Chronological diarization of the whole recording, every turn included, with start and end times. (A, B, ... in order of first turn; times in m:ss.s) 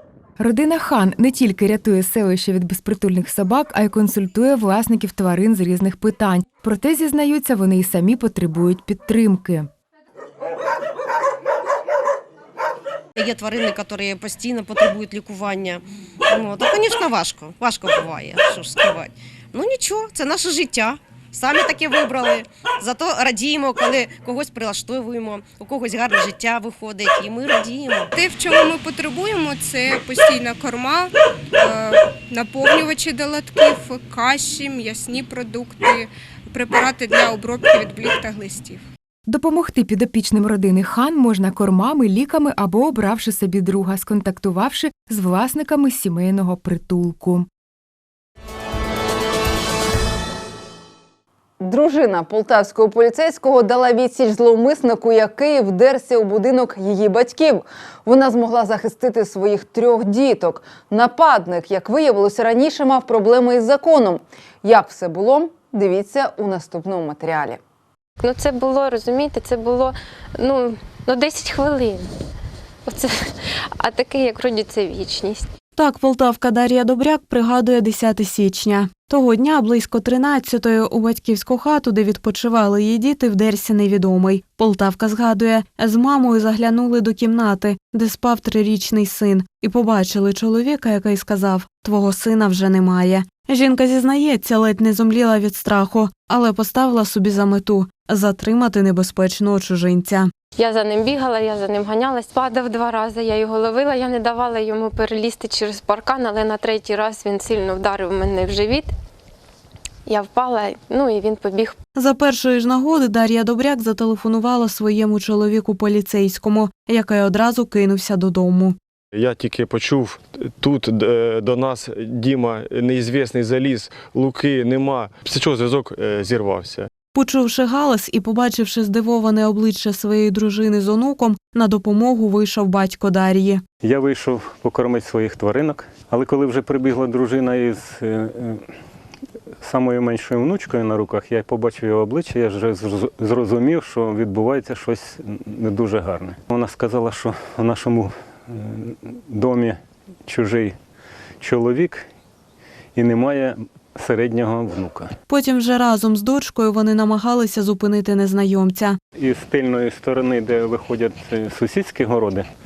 0:00.4-0:09.7 A
0:13.2-0:28.0 B
0:28.2-0:38.8 C
0:39.3-0:47.5 A
0:51.6-1:07.6 D
1:08.2-1:12.1 E
1:12.8-1:15.5 E
1:15.8-1:40.3 F
1:40.6-1:48.9 E
1:50.0-1:51.8 E
1:51.9-1:58.8 F
1:59.2-2:06.9 G
2:07.1-2:13.6 F
2:13.8-2:18.6 H
2:19.6-2:30.8 H
2:31.4-2:32.0 H
2:33.0-2:35.1 H
2:35.3-2:39.0 F
2:39.2-2:42.5 H